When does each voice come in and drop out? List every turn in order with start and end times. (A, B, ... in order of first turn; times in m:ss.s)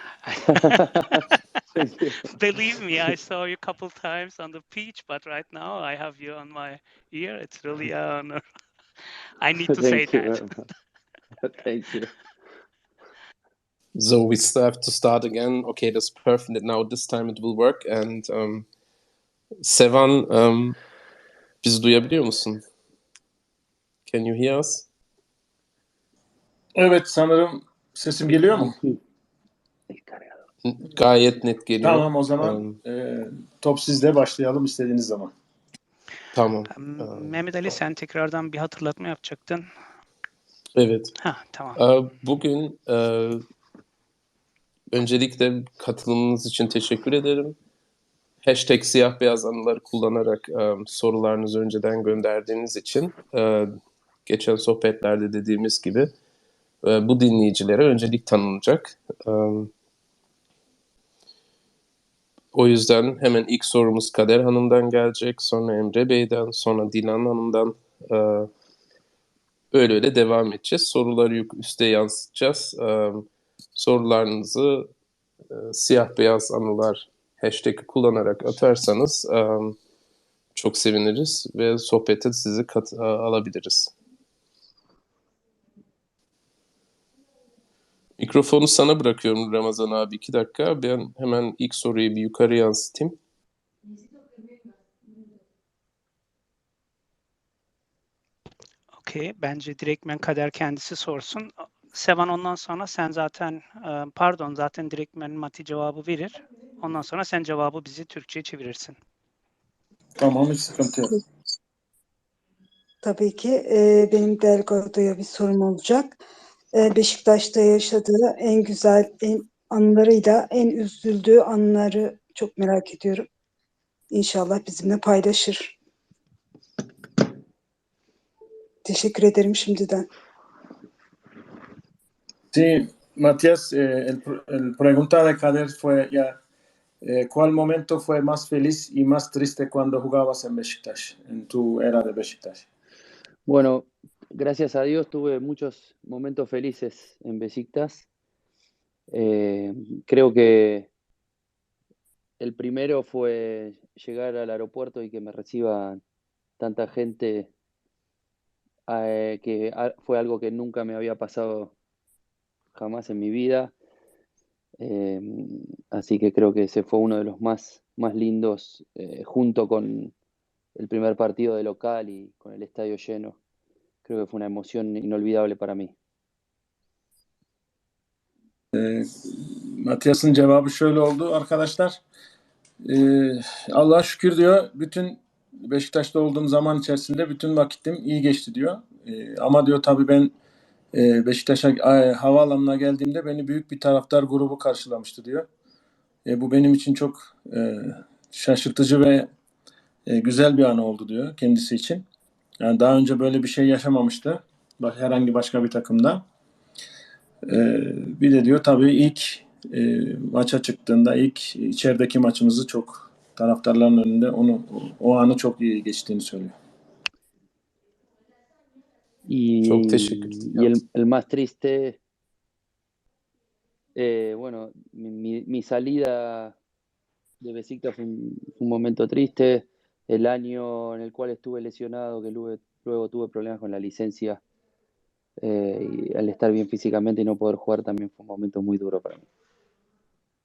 0:00.2-0:01.3 A
0:01.7-0:02.2 B
0:02.3-0:08.4 A
0:09.4-0:10.5 A
0:09.7-0:10.6 B
0:11.4-0:12.1 B
0:14.0-0:18.7 C
0:19.6-0:20.8 C
0:21.6-0:22.6 C
0:24.0-0:24.9 C
0:26.8-0:28.7 D
0:28.5-0:29.0 B
0:29.9-0:30.4 B
0:30.6-0:32.8 C
0:31.8-0:35.3 D
0:36.3-0:37.4 C
0:36.7-0:39.7 A
0:40.8-0:41.1 C
0:41.2-0:41.8 A
0:41.8-0:43.4 C
0:44.9-0:47.6 C
0:48.4-0:53.7 C
0:54.2-0:56.1 C
0:56.8-0:59.7 C
1:02.5-1:08.5 C
1:09.7-1:14.9 C
1:15.5-1:19.8 C
1:20.5-1:23.9 C
1:28.2-1:33.2 C
1:39.0-1:49.0 A
1:50.2-1:51.1 D
1:53.0-1:56.2 E
1:56.7-2:03.3 E
2:04.1-2:05.7 E
2:08.8-2:10.0 E
2:12.5-2:16.4 D
2:17.0-2:22.6 D
2:23.4-2:28.0 B
2:29.1-2:30.9 B
2:32.4-2:36.0 B
2:36.6-2:37.5 B
2:38.9-2:41.7 B
2:42.7-2:43.7 B
2:44.8-2:50.1 B
2:50.8-2:53.4 B
2:54.0-2:55.9 B
2:58.7-3:02.0 D
3:02.8-3:10.3 D
3:10.9-3:15.4 D
3:16.2-3:19.3 D
3:20.1-3:22.0 D
3:22.6-3:26.2 D
3:27.5-3:36.5 D
3:39.3-3:42.0 B
3:39.6-3:40.7 C
3:43.9-3:46.6 B
3:47.4-3:54.4 B
3:55.4-3:59.2 B